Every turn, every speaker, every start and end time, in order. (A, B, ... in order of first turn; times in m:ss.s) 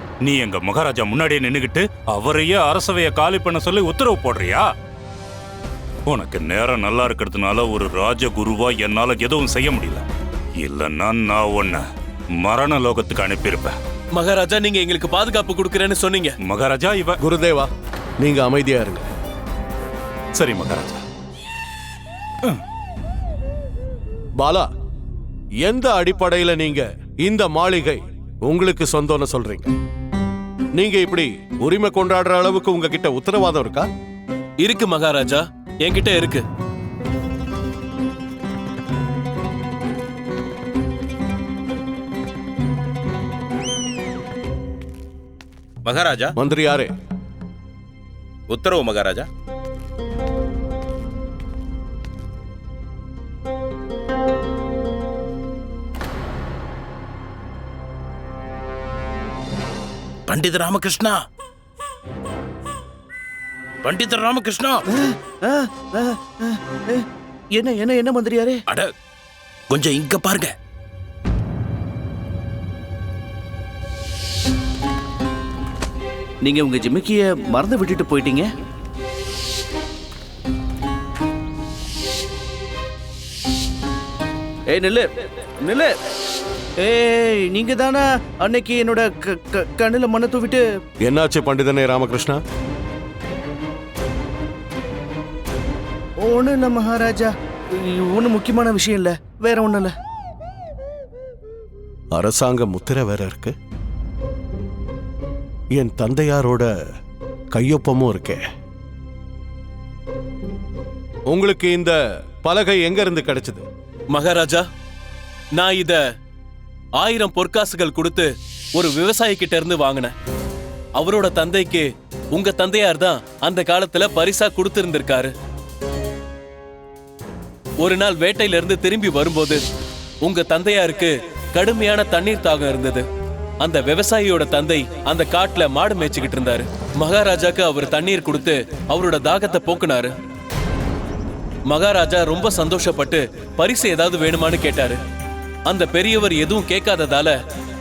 0:00.2-0:04.7 A
0:06.1-0:10.0 A
0:10.6-0:11.8 A
0:12.4-0:13.8 A
0:14.2-0:16.4 B
0:16.4-0:17.2 A
0:17.2-0:17.7 C
0:18.2-0:19.1 C
0:20.4-0:21.0 A
0:24.4-0:24.7 C
0:25.6-0:29.7 C
0:30.8-0:33.9 C
0:34.6-0:36.4 B
0:45.8-0:46.3 D
0:46.4-0:46.9 C
0:48.5-0:49.3 D
1:00.3-1:01.2 D
1:03.8-1:04.8 D
1:05.0-1:07.0 E
1:07.6-1:08.6 E
1:09.7-1:10.5 D
1:16.4-1:18.5 E
1:24.7-1:25.1 E
1:25.6-1:25.9 E
1:26.8-1:30.6 E
1:31.0-1:32.4 C
1:36.2-1:37.3 E
1:37.9-1:39.9 E
1:42.1-1:43.5 C
1:45.8-1:46.8 C
1:47.5-1:48.4 C
1:51.3-1:53.6 C
1:54.1-1:54.6 B
1:55.6-1:56.0 B
1:57.0-2:00.1 B
2:01.0-2:05.3 B
2:07.8-2:09.6 B
2:10.2-2:13.1 B
2:13.6-2:20.1 B
2:21.7-2:25.0 B
2:25.7-2:27.4 B